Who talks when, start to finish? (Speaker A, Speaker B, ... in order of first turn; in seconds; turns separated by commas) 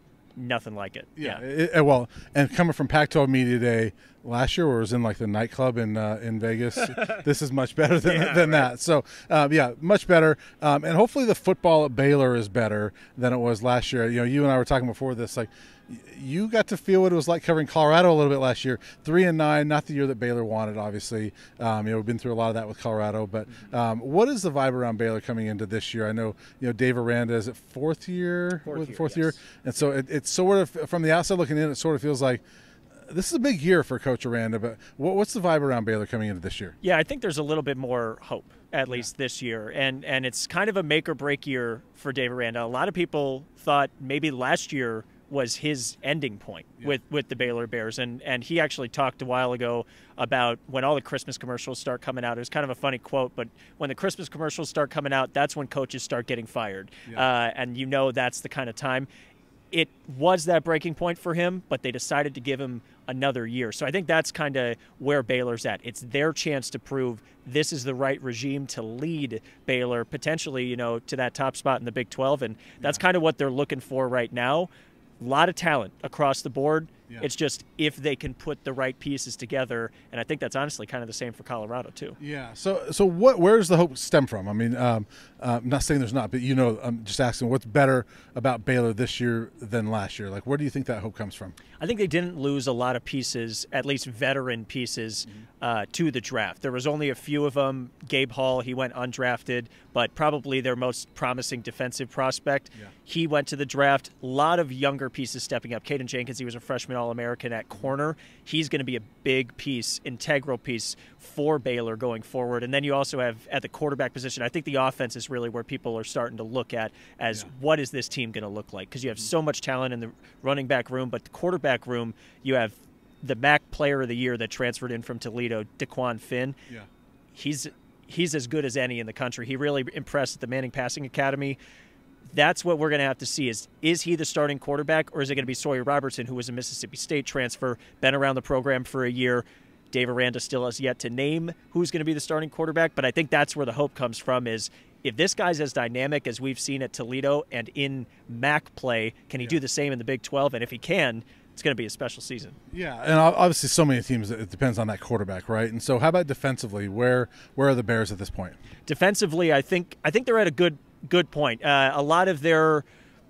Speaker A: 0.3-1.4, Speaker B: 1.2-32.4, Speaker A: 6.9-7.2, Speaker A: 8.0-8.7, Speaker A: 28.6-29.4, Speaker B: 33.1-36.8, Speaker A: 36.8-59.1, Speaker A: 59.7-82.2, Speaker B: 82.2-91.6, Speaker A: 91.8-126.6, Speaker A: 127.3-131.6, Speaker A: 132.3-152.6, Speaker B: 152.7-158.6, Speaker A: 158.8-162.8